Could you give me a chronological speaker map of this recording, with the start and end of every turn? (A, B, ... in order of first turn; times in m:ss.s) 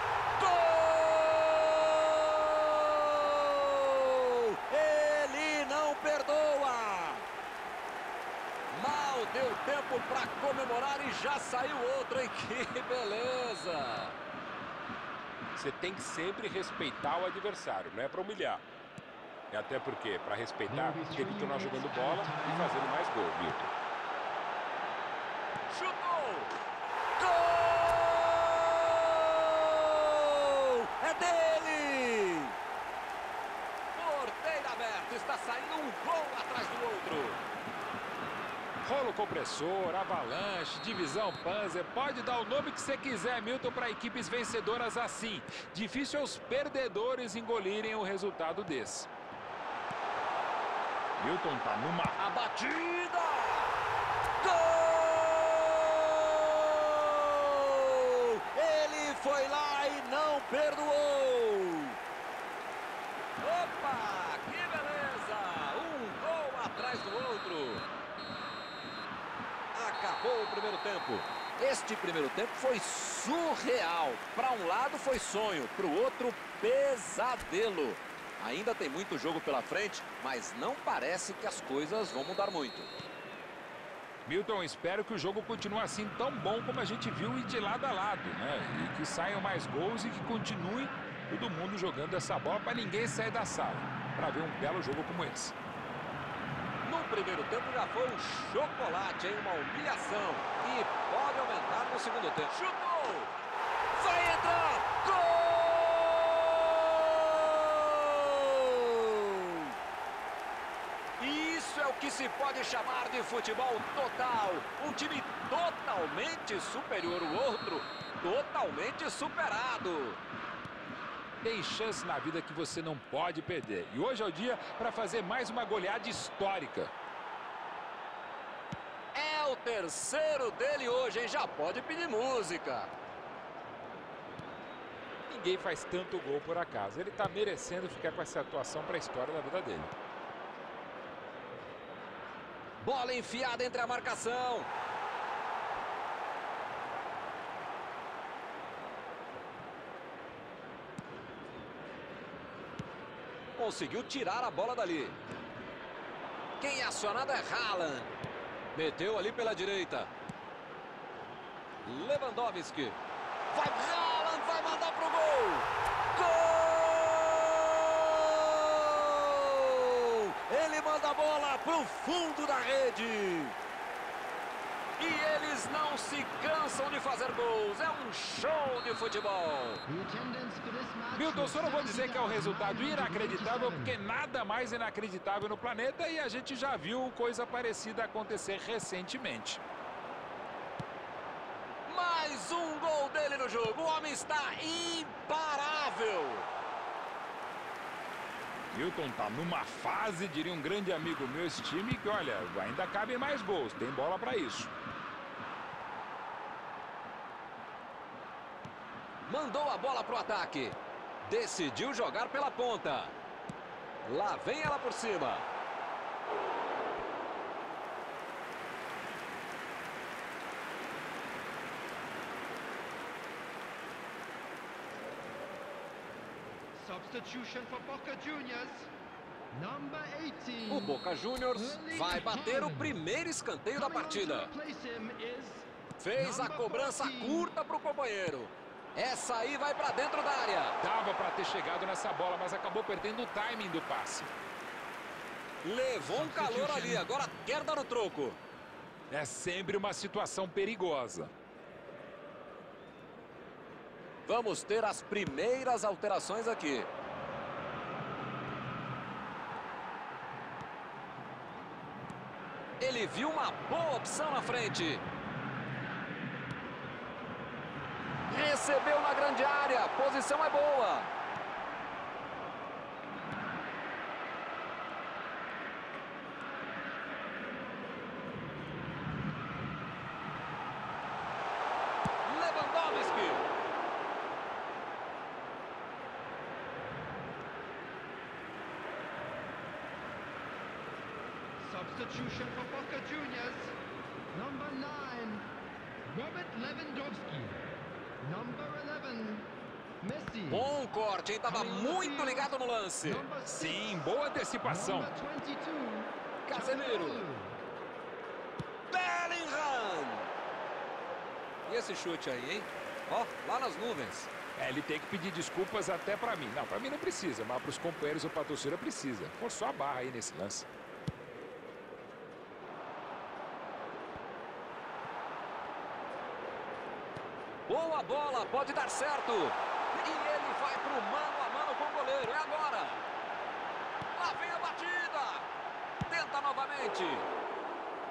0:00.4-0:07.3 A
0:08.7-0:14.2 A
0:15.6-0:18.6 B
0:19.5-0:23.7 B
0:20.7-0:23.1 C
0:25.7-0:26.5 A
0:27.2-0:32.6 A
0:34.0-0:37.4 A
0:38.8-0:49.1 B
0:51.2-0:52.2 B
0:52.2-0:53.8 A
0:54.4-1:02.0 A
1:03.4-1:07.9 A
1:09.7-1:22.9 A
1:24.3-1:35.6 B
1:36.8-1:43.3 A
1:43.9-1:49.7 A
1:51.2-2:00.2 A
2:01.4-2:06.9 B
2:09.1-2:12.9 A
2:15.3-2:19.9 B
2:22.8-2:24.7 A
2:33.6-2:35.2 A
2:36.6-2:38.1 A
2:38.7-2:40.1 A
2:41.8-2:43.0 A
2:43.5-2:53.6 A
2:55.0-2:59.8 A
2:59.9-3:04.0 C
3:01.2-3:09.6 B
3:11.9-3:16.5 A
3:18.7-3:24.7 B
3:29.3-3:33.1 A
3:34.0-3:35.5 A
3:46.8-3:48.9 C
3:49.5-3:51.0 C
3:50.7-3:54.5 A
3:51.5-3:53.0 C
3:53.7-3:57.5 C
3:56.0-4:00.8 A
4:00.8-4:04.3 B
4:05.6-4:08.4 A
4:06.0-4:07.1 B
4:09.1-4:11.3 B
4:14.3-4:16.9 A
4:22.8-4:25.0 A
4:28.3-4:31.1 A
4:42.2-4:43.4 A
4:51.6-4:53.7 C
4:54.3-4:55.5 C
4:56.1-4:57.6 C
4:58.2-4:59.5 C
5:00.0-5:00.7 C
5:00.5-5:03.3 A
5:01.4-5:07.6 C
5:03.5-5:05.1 B
5:06.5-5:07.2 A
5:08.9-5:10.3 A
5:11.7-5:14.3 A
5:14.6-5:20.7 B
5:27.7-5:33.0 A
5:34.2-5:35.5 A
5:36.1-5:37.3 A